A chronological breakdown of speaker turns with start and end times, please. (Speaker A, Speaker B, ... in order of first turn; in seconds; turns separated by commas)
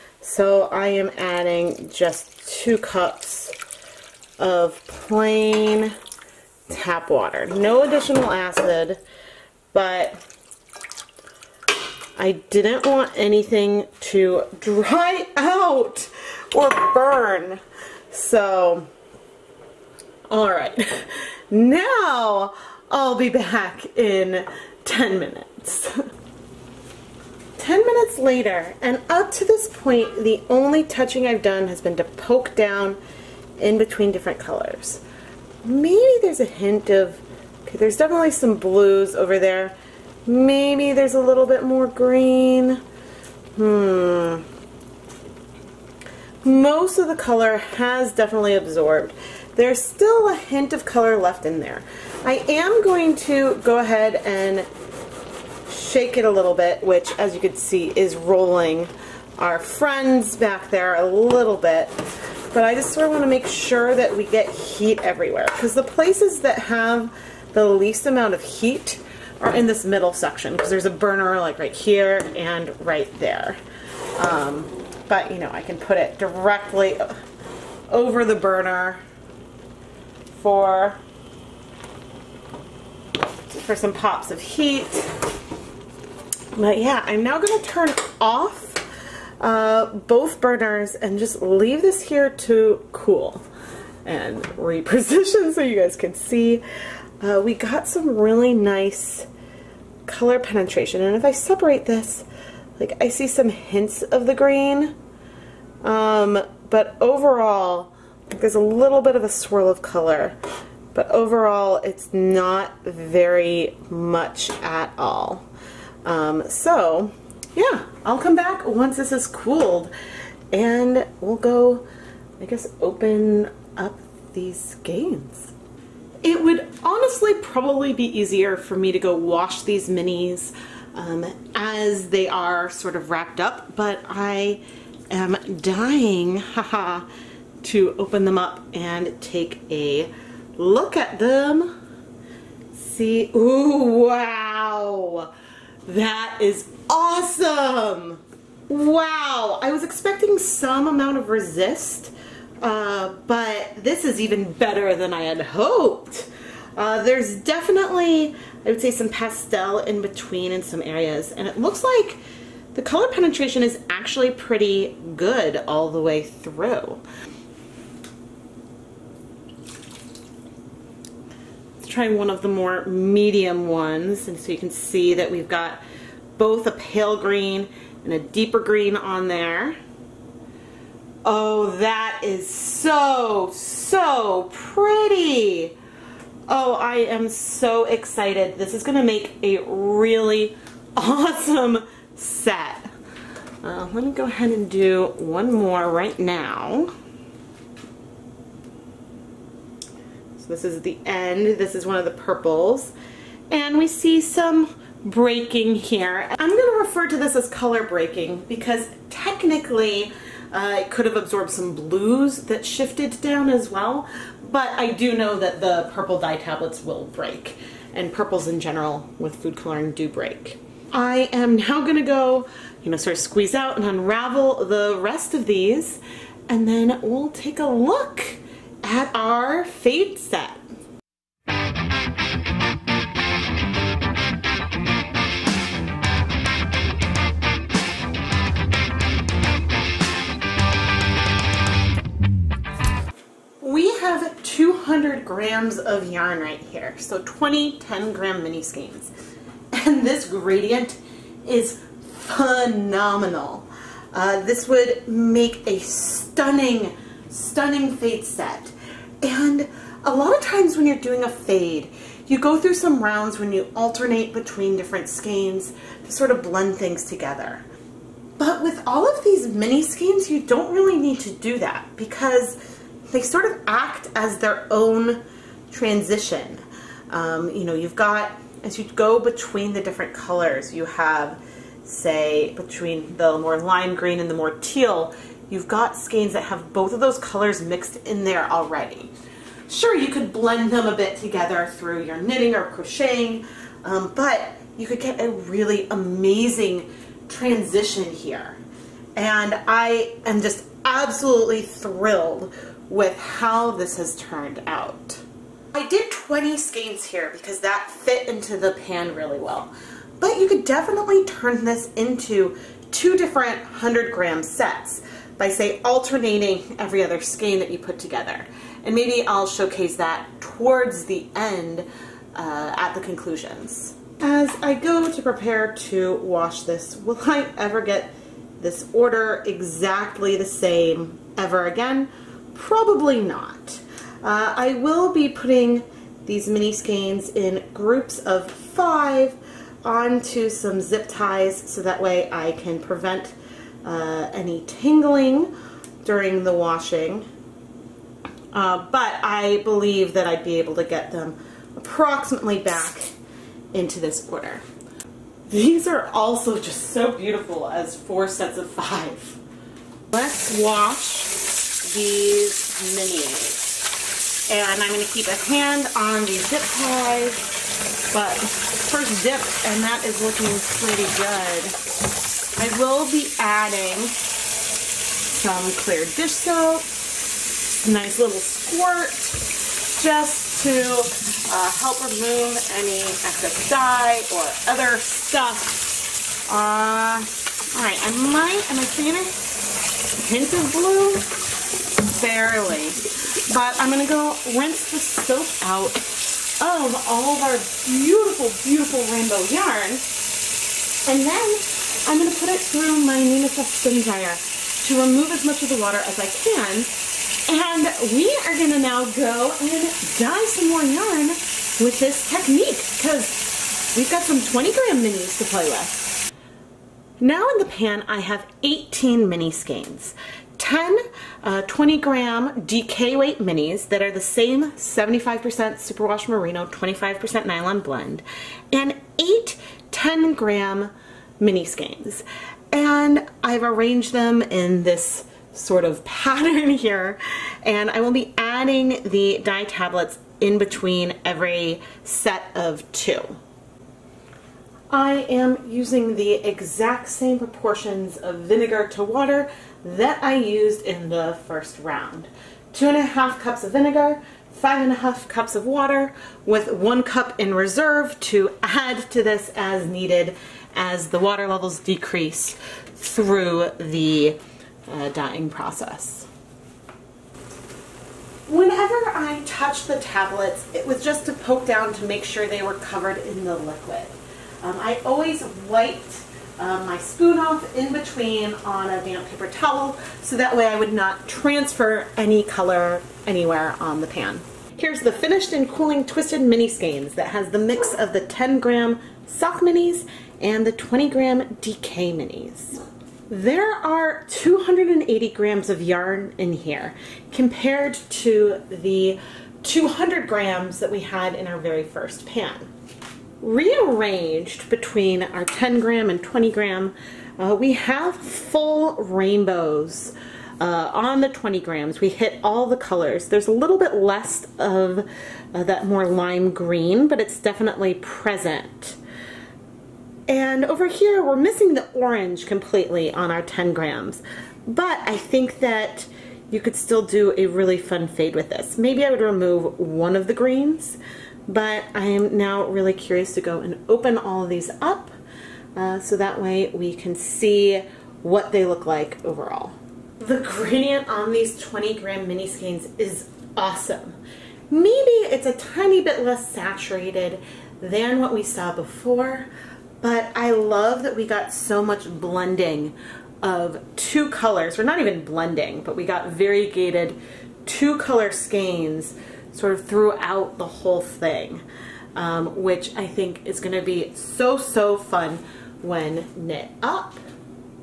Speaker A: 0.2-3.6, Speaker A: 4.4-5.9, Speaker A: 6.7-9.0, Speaker A: 9.7-10.2, Speaker A: 12.2-18.9, Speaker A: 20.3-26.0, Speaker A: 27.6-33.0, Speaker A: 33.6-35.0, Speaker A: 35.6-39.8, Speaker A: 40.3-42.8, Speaker A: 43.5-44.5, Speaker A: 46.4-54.7, Speaker A: 55.7-62.0, Speaker A: 62.5-73.6, Speaker A: 74.2-77.1, Speaker A: 77.9-79.0, Speaker A: 80.3-81.0, Speaker A: 83.5-85.2, Speaker A: 86.5-88.8, Speaker A: 89.4-93.5, Speaker A: 94.0-96.6, Speaker A: 97.2-99.3, Speaker A: 100.1-102.3, Speaker A: 102.8-104.9, Speaker A: 105.8-110.4, Speaker A: 110.9-115.5, Speaker A: 116.0-119.9, Speaker A: 120.5-121.8, Speaker A: 122.4-125.5, Speaker A: 126.2-137.1, Speaker A: 137.6-141.7, Speaker A: 142.7-145.3, Speaker A: 145.9-162.2, Speaker A: 162.7-167.0, Speaker A: 171.8-175.8, Speaker A: 176.4-179.8, Speaker A: 181.2-185.8, Speaker A: 186.5-192.9, Speaker A: 193.6-196.9, Speaker A: 200.4-202.9, Speaker A: 203.5-230.6, Speaker A: 243.6-249.1, Speaker A: 249.7-267.6, Speaker A: 268.4-272.6, Speaker A: 273.1-289.1, Speaker A: 289.7-298.6, Speaker A: 299.2-305.2, Speaker A: 305.7-345.5, Speaker A: 346.0-347.3, Speaker A: 348.5-353.1, Speaker A: 353.7-354.6, Speaker A: 355.5-359.4, Speaker A: 360.1-363.9, Speaker A: 364.5-367.5, Speaker A: 368.1-371.8, Speaker A: 372.6-374.2, Speaker A: 375.3-376.9, Speaker A: 377.8-389.3, Speaker A: 390.1-391.3, Speaker A: 392.0-400.1, Speaker A: 401.1-406.9, Speaker A: 407.5-416.1, Speaker A: 417.2-443.4, Speaker A: 444.9-466.3, Speaker A: 468.5-502.7, Speaker A: 503.4-519.0, Speaker A: 520.3-535.1, Speaker A: 535.8-544.2, Speaker A: 544.7-549.5, Speaker A: 550.0-561.6, Speaker A: 562.1-567.2